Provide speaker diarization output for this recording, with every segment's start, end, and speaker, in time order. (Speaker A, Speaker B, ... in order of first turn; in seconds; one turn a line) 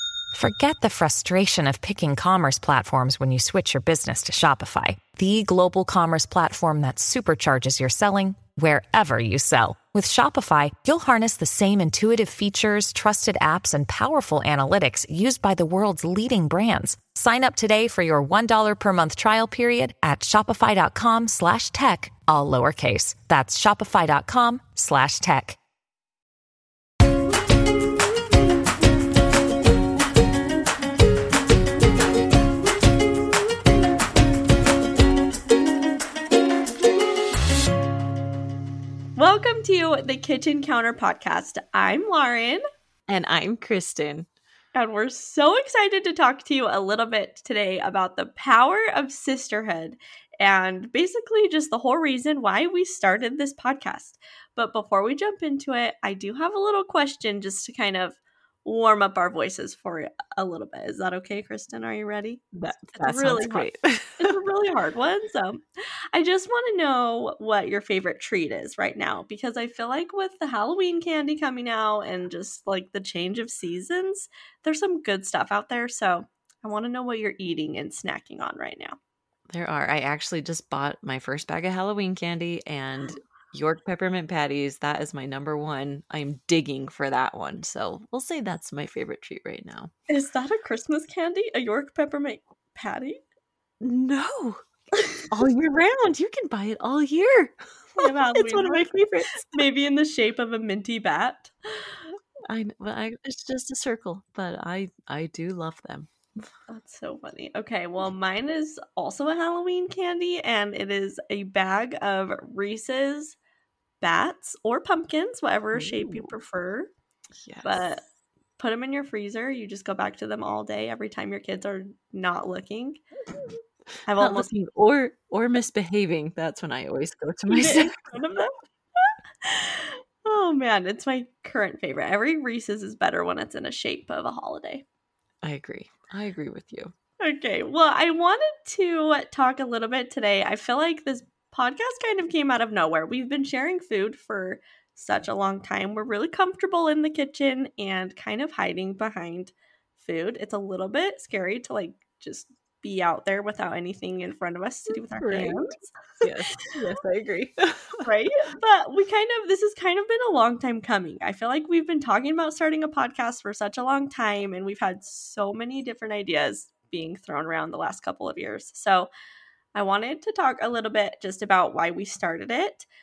Speaker A: 0.3-25.6
Speaker B: 39.2-42.6
Speaker C: 43.1-44.3
Speaker B: 44.7-65.6
Speaker C: 62.5-64.3
Speaker B: 66.1-79.0
Speaker C: 79.5-89.9
Speaker B: 90.1-93.2
Speaker C: 93.8-94.6
Speaker B: 95.0-95.2
Speaker C: 95.3-99.4
Speaker B: 98.0-102.1
Speaker C: 102.5-106.1
Speaker B: 106.7-113.3
Speaker B: 114.0-116.9
Speaker C: 115.7-116.3
Speaker C: 117.4-117.9
Speaker B: 117.6-118.0
Speaker B: 118.6-123.0
Speaker B: 124.0-124.5
Speaker C: 124.2-127.9
Speaker B: 127.5-134.8
Speaker C: 135.4-136.9
Speaker B: 137.2-156.6
Speaker C: 155.1-155.7
Speaker C: 156.2-158.1
Speaker B: 158.0-169.1
Speaker B: 169.7-172.9